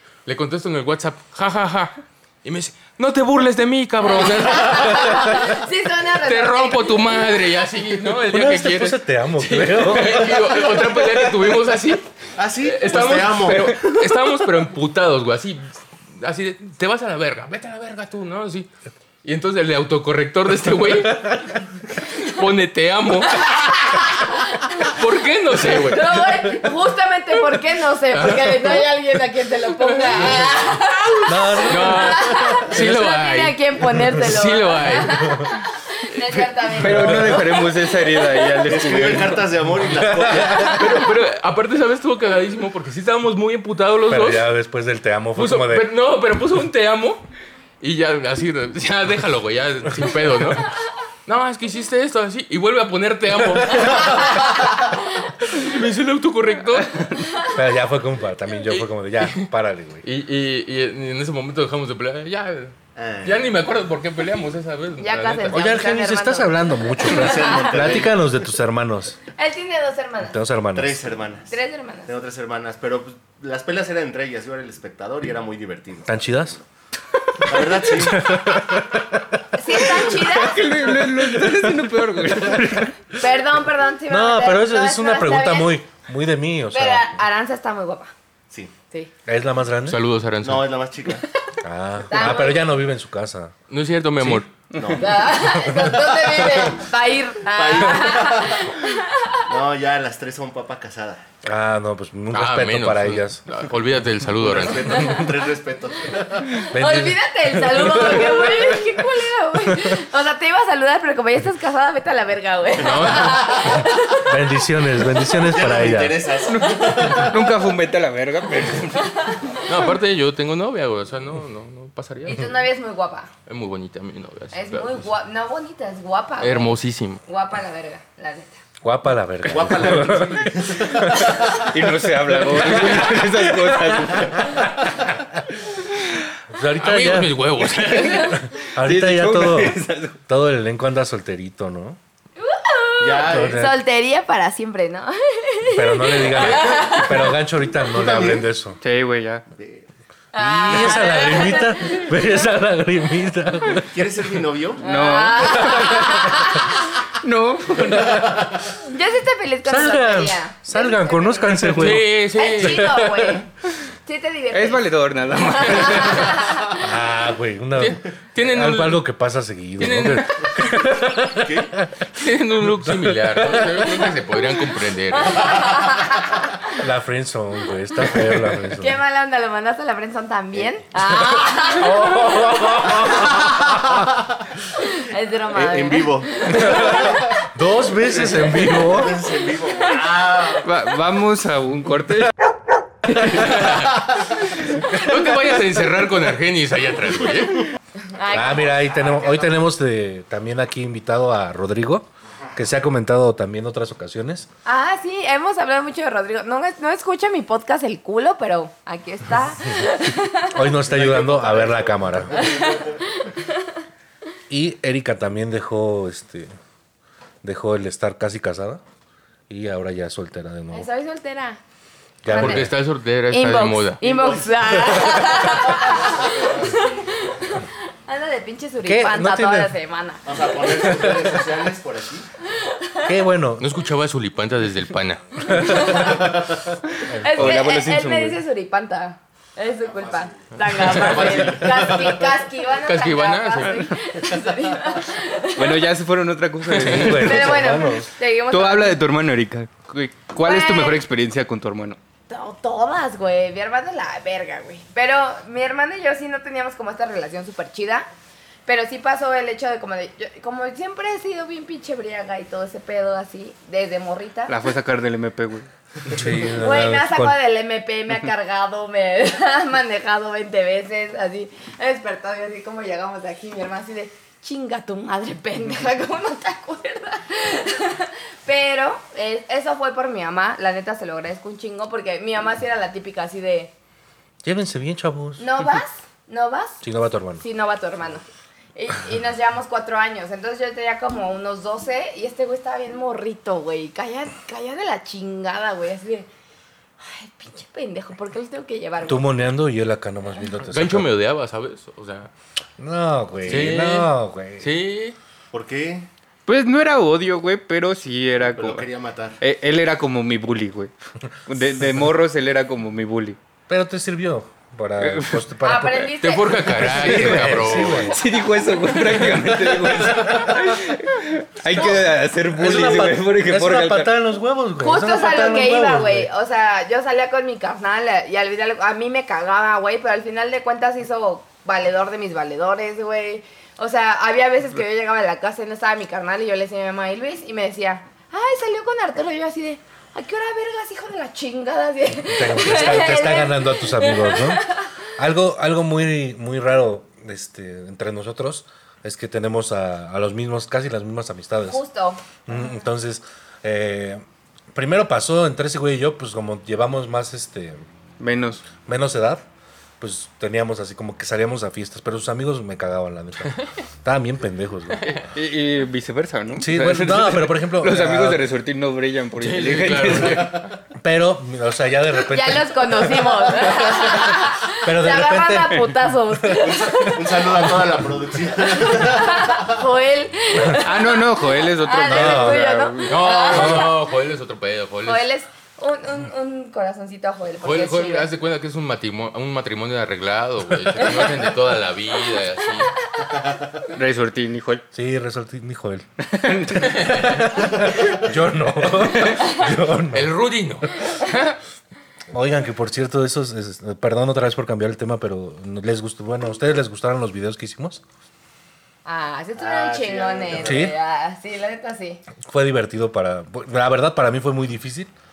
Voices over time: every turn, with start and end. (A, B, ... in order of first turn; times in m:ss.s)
0:00.2-0:05.6 A
0:04.0-0:07.1 B
0:06.2-0:12.1 A
0:08.2-0:10.6 C
0:12.4-0:13.8 D
0:12.6-0:18.7 A
0:19.2-0:23.7 A
0:23.5-0:24.9 B
0:24.8-0:26.4 A
0:25.7-0:38.5 B
0:28.1-0:28.9 A
0:29.8-0:30.5 A
0:31.2-0:32.4 C
0:31.6-0:35.4 A
0:36.8-0:39.4 E
0:36.9-0:37.3 C
0:38.6-0:41.0 D
0:39.8-0:41.0 C
0:40.6-0:44.5 A
0:44.1-0:45.9 C
0:45.3-0:47.2 A
0:47.8-0:50.7 A
0:51.2-0:54.8 A
0:55.4-0:57.1 A
0:57.5-1:00.0 C
0:58.7-0:59.5 A
1:00.0-1:05.6 A
1:03.0-1:03.5 D
1:05.0-1:07.7 B
1:05.5-1:09.2 C
1:07.0-1:08.3 D
1:09.3-1:10.4 B
1:10.2-1:11.1 C
1:10.7-1:16.6 D
1:11.5-1:12.1 B
1:16.0-1:16.6 C
1:17.4-1:18.4 D
1:17.9-1:19.2 C
1:19.5-1:20.6 B
1:20.1-1:23.0 E
1:21.0-1:21.6 C
1:23.2-1:25.8 B
1:24.1-1:27.1 C
1:26.7-1:28.1 B
1:29.2-1:30.0 C
1:29.9-1:30.7 A
1:30.4-1:31.3 D
1:31.6-1:33.5 C
1:32.1-1:32.7 B
1:33.7-1:34.5 A
1:34.7-1:35.4 D
1:35.0-1:39.5 B
1:35.4-1:36.0 C
1:37.5-1:38.7 D
1:39.4-1:41.3 D
1:41.4-1:43.4 C
1:42.3-1:45.2 A
1:44.4-1:46.6 D
1:46.7-1:48.9 C
1:46.7-1:54.3 B
1:52.8-1:53.8 A
1:54.2-1:56.2 C
1:55.3-1:57.7 D
1:56.5-1:59.3 E
1:59.0-1:59.6 B
1:59.6-2:02.6 A
2:02.2-2:03.3 B
2:03.5-2:05.1 A
2:04.5-2:08.6 B
2:06.4-2:07.2 A
2:08.8-2:11.4 C
2:09.4-2:11.8 D
2:11.5-2:14.6 E
2:12.8-2:14.7 C
2:16.5-2:17.4 C
2:16.8-2:18.5 A
2:18.0-2:22.0 C
2:18.8-2:20.2 E
2:22.4-2:27.3 B
2:23.0-2:23.7 D
2:23.2-2:23.8 C
2:25.7-2:28.8 C
2:27.9-2:28.4 D
2:28.8-2:29.4 E
2:29.5-2:29.9 D
2:30.3-2:32.4 B
2:30.4-2:33.9 C
2:33.8-2:34.8 D
2:34.8-2:36.5 E
2:34.8-2:36.8 B
2:37.2-2:38.2 E
2:37.9-2:38.3 C
2:38.1-2:38.6 D
2:38.8-2:43.5 B
2:39.6-2:42.1 C
2:41.6-2:43.3 A
2:42.6-2:43.0 C
2:44.0-2:46.7 B
2:44.5-2:46.4 E
2:46.8-2:52.0 C
2:47.8-2:49.0 A
2:49.8-2:50.7 A
2:51.3-2:51.7 D
2:52.1-2:55.6 A
2:52.8-2:54.0 C
2:55.1-2:56.4 B
2:56.8-2:59.0 C
2:58.7-3:02.1 B
3:01.6-3:04.0 C
3:03.3-3:04.1 D
3:04.8-3:07.3 B
3:05.5-3:07.2 D
3:06.5-3:09.2 C
3:08.2-3:10.7 D
3:10.6-3:12.3 E
3:13.0-3:13.8 E
3:13.2-3:14.0 A
3:14.7-3:17.7 A
3:18.0-3:18.9 B
3:18.3-3:24.5 C
3:24.6-3:30.6 B
3:30.5-3:32.5 C
3:30.8-3:33.2 D
3:32.4-3:33.5 B
3:34.5-3:36.5 C
3:37.4-3:38.8 C
3:39.5-3:40.9 C
3:40.7-3:41.6 B
3:42.2-3:42.7 C
3:42.3-3:42.7 B
3:42.3-3:44.0 A
3:43.3-3:50.9 B
3:44.0-3:46.9 D
3:48.8-3:49.7 C
3:50.2-3:52.3 D
3:50.9-3:51.3 C
3:52.5-3:53.1 B
3:53.0-3:53.7 C
3:53.6-3:55.8 A
3:55.5-3:56.3 B
3:55.6-3:55.9 C
3:56.0-3:56.6 D
3:57.1-3:57.6 C
3:57.1-4:05.8 B
3:57.3-3:58.4 E
4:00.0-4:02.4 D
4:00.9-4:01.3 A
4:02.8-4:03.9 A
4:05.6-4:07.6 E
4:06.8-4:07.2 A
4:06.8-4:08.1 C
4:07.0-4:09.0 B
4:08.5-4:12.0 E
4:10.4-4:11.0 B
4:12.3-4:18.1 B
4:18.6-4:24.6 B
4:24.5-4:25.7 E
4:26.1-4:27.4 C
4:26.5-4:43.7 B
4:44.4-4:45.6 C
4:45.4-4:46.8 B
4:46.8-4:47.4 C
4:47.4-4:56.3 B
4:57.0-4:59.3 B
4:59.0-5:01.1 C
5:00.7-5:02.3 A
5:02.8-5:04.7 C
5:03.4-5:05.2 A
5:05.5-5:06.1 D
5:06.5-5:08.8 E
5:08.5-5:09.4 D
5:09.4-5:10.9 E
5:11.5-5:13.4 E
5:13.7-5:16.1 C
5:15.0-5:15.4 E
5:15.6-5:16.9 B
5:16.2-5:18.1 A
5:16.7-5:18.2 C
5:16.9-5:24.1 E
5:20.1-5:20.6 C
5:21.7-5:26.3 C
5:24.8-5:44.8 B
5:42.2-5:51.8 C
5:51.7-5:52.2 B
5:52.4-5:54.2 C
5:54.7-5:57.8 C
5:58.2-5:58.7 E
5:58.8-5:59.4 C
6:00.0-6:05.1 C
6:04.9-6:05.2 A
6:05.1-6:10.6 E
6:06.6-6:08.4 C
6:09.4-6:10.7 A
6:11.0-6:16.1 C
6:12.3-6:17.6 B
6:16.5-6:19.8 D
6:18.7-6:24.0 B
6:20.8-6:23.4 E
6:22.1-6:22.6 C
6:23.1-6:25.2 A
6:23.5-6:23.9 C
6:25.0-6:28.3 B
6:27.6-6:32.9 A
6:33.9-6:34.8 E
6:34.9-6:36.0 C
6:36.2-6:37.3 E
6:36.8-6:40.3 C
6:40.1-6:41.6 A
6:42.3-6:48.0 C
6:49.0-6:52.2 B
6:49.6-6:50.9 D
6:50.6-6:50.9 C
6:52.4-6:55.1 C